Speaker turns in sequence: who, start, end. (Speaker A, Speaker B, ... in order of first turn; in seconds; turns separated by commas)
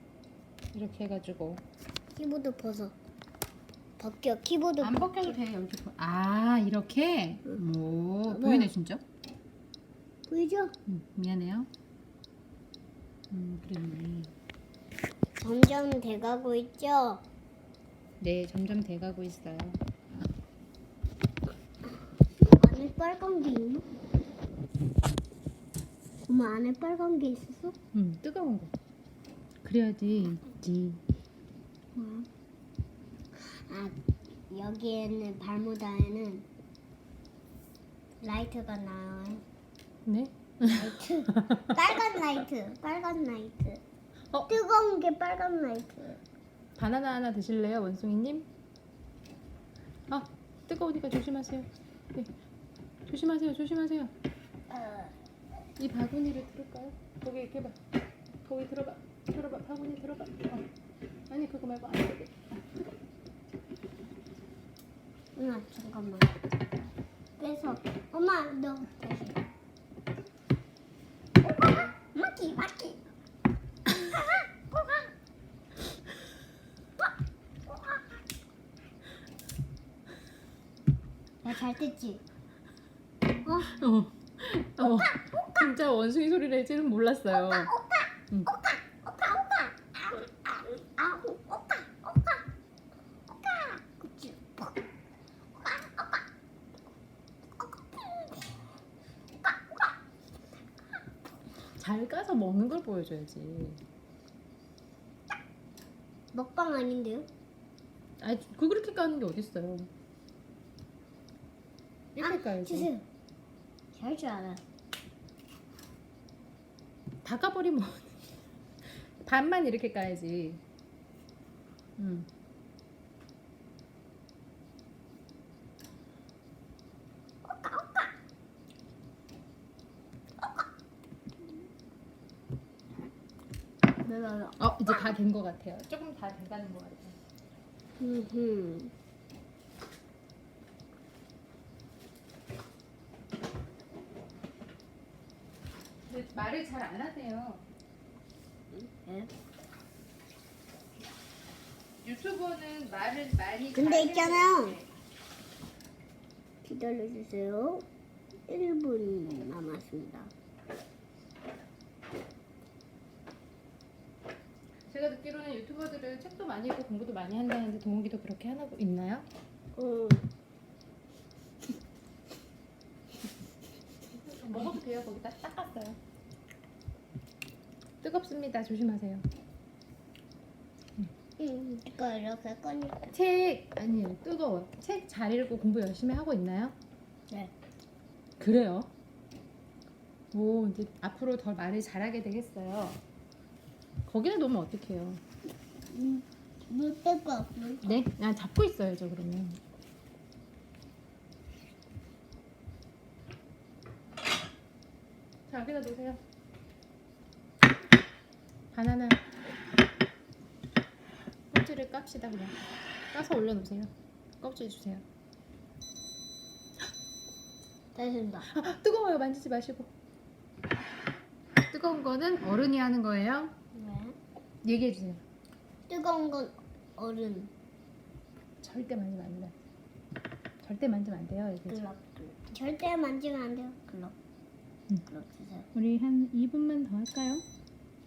Speaker A: 0.7-1.6, Speaker B: 2.2-3.0, Speaker B: 4.0-5.3, Speaker A: 4.8-9.0, Speaker B: 8.3-8.7, Speaker B: 10.3-10.8, Speaker A: 10.9-11.7, Speaker A: 13.3-14.3, Speaker B: 15.4-17.2, Speaker A: 18.2-19.8, Speaker B: 22.4-23.9, Speaker B: 26.3-27.8, Speaker A: 27.9-28.7, Speaker A: 29.6-31.0, Speaker B: 32.0-32.3, Speaker B: 33.4-36.5, Speaker B: 38.2-39.4, Speaker A: 40.1-41.7, Speaker B: 40.7-43.8, Speaker B: 44.5-46.2, Speaker A: 46.8-48.5, Speaker A: 50.1-52.3, Speaker A: 53.1-54.1, Speaker B: 54.7-55.1, Speaker A: 55.8-57.8, Speaker A: 58.5-60.7, Speaker A: 61.3-62.6, Speaker B: 65.4-66.3, Speaker B: 67.4-69.4, Speaker B: 71.5-73.0, Speaker B: 73.9-74.9, Speaker B: 81.4-82.2, Speaker B: 83.5-83.8, Speaker A: 83.7-87.7, Speaker B: 87.3-92.4, Speaker B: 93.3-94.8, Speaker B: 95.6-96.2, Speaker B: 97.9-98.4, Speaker A: 101.8-103.8, Speaker B: 106.3-107.3, Speaker A: 108.2-109.9, Speaker B: 112.2-113.0, Speaker A: 112.2-112.9, Speaker B: 113.9-114.6, Speaker A: 117.2-118.2, Speaker A: 118.8-120.6, Speaker A: 122.0-122.3, Speaker B: 127.5-128.1, Speaker B: 134.1-135.1, Speaker A: 134.6-137.2, Speaker B: 138.0-138.9, Speaker A: 146.1-147.6, Speaker B: 148.7-149.3, Speaker A: 152.0-154.9, Speaker B: 153.8-154.8, Speaker B: 156.6-157.9, Speaker B: 158.5-160.3, Speaker A: 164.9-169.3, Speaker B: 169.8-170.2, Speaker A: 174.1-176.0, Speaker A: 178.0-179.3, Speaker B: 181.4-183.2, Speaker A: 183.1-186.8, Speaker A: 188.4-188.9, Speaker A: 190.3-193.0, Speaker A: 194.1-195.2, Speaker B: 195.9-197.9, Speaker A: 197.8-199.6, Speaker A: 205.5-206.2, Speaker A: 208.7-209.2, Speaker A: 211.5-212.6, Speaker A: 213.1-215.1, Speaker B: 217.9-218.5, Speaker A: 218.5-219.9, Speaker A: 221.6-223.5, Speaker B: 223.7-224.2, Speaker A: 224.6-225.2, Speaker B: 225.9-227.5, Speaker A: 228.6-229.5, Speaker A: 230.6-231.8, Speaker B: 231.7-234.2, Speaker B: 235.1-235.7, Speaker A: 235.7-237.4